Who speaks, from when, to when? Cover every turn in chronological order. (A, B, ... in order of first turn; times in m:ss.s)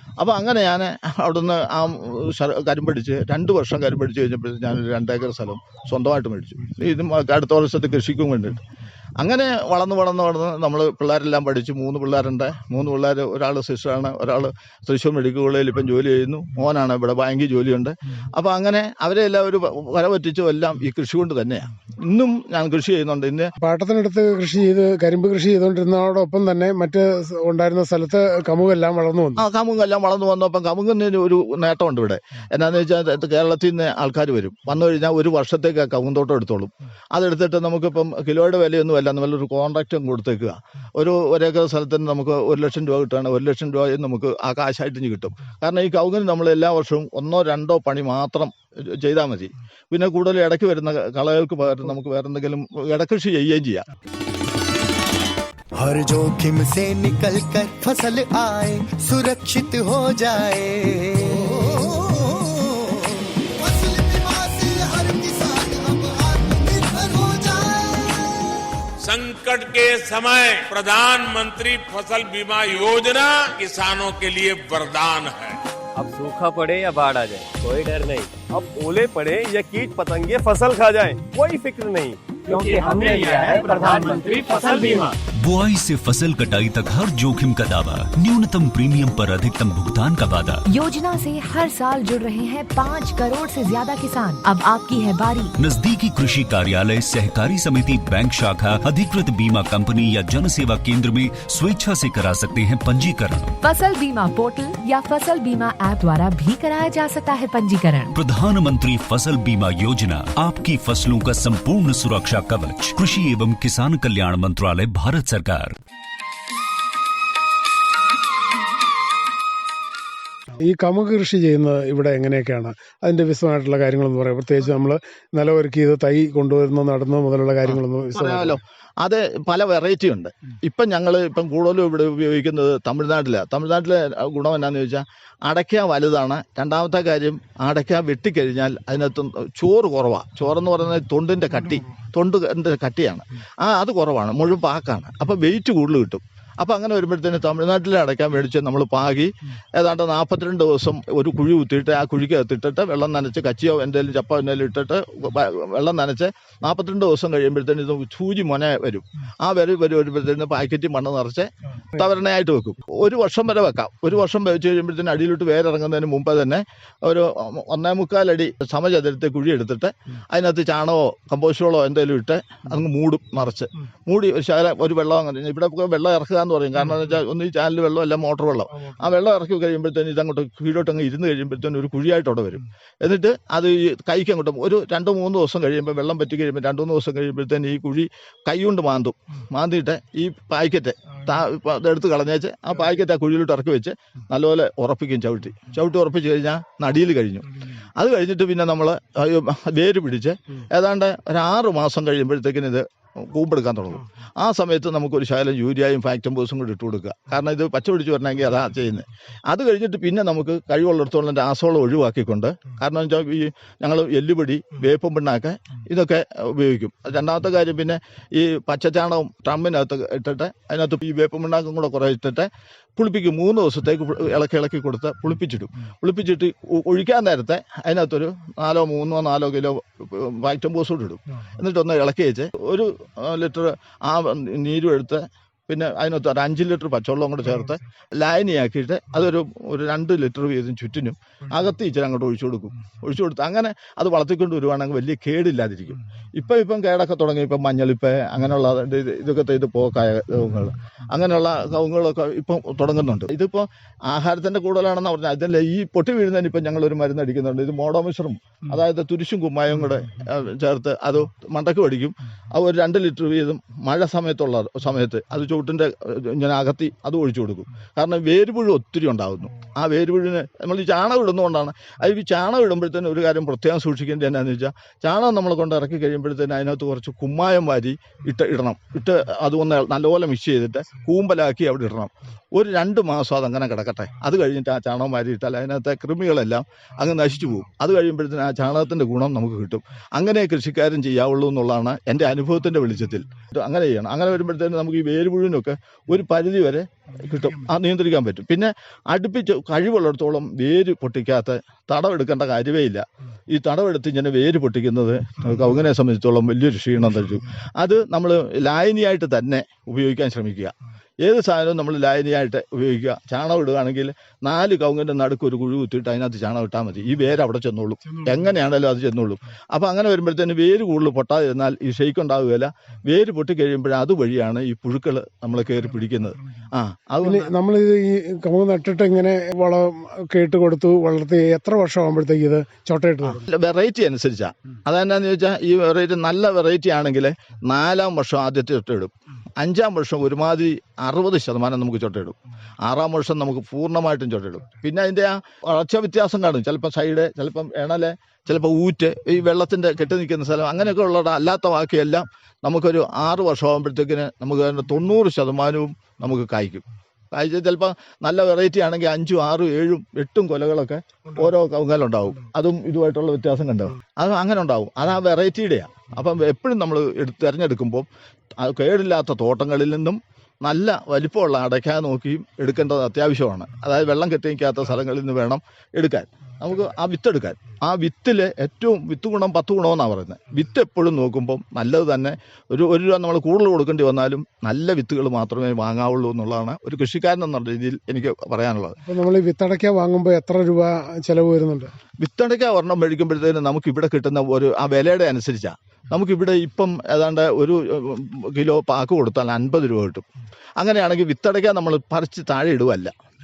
0:00.2-0:08.6 A
0:09.2-0:23.5 A
0:23.6-0:29.4 B
0:29.4-0:53.9 A
0:55.8-1:08.4 C
1:09.0-1:15.6 D
1:16.0-1:25.1 E
1:25.4-1:30.6 F
1:30.7-1:35.5 G
1:35.6-1:43.5 F
1:43.6-1:48.1 G
1:48.1-1:55.8 F
2:00.6-2:08.6 B
2:07.6-5:27.5 A
5:27.2-5:33.4 B
5:33.2-6:29.0 A
6:29.0-6:31.9 B
6:32.2-6:40.2 A
6:40.8-6:43.1 A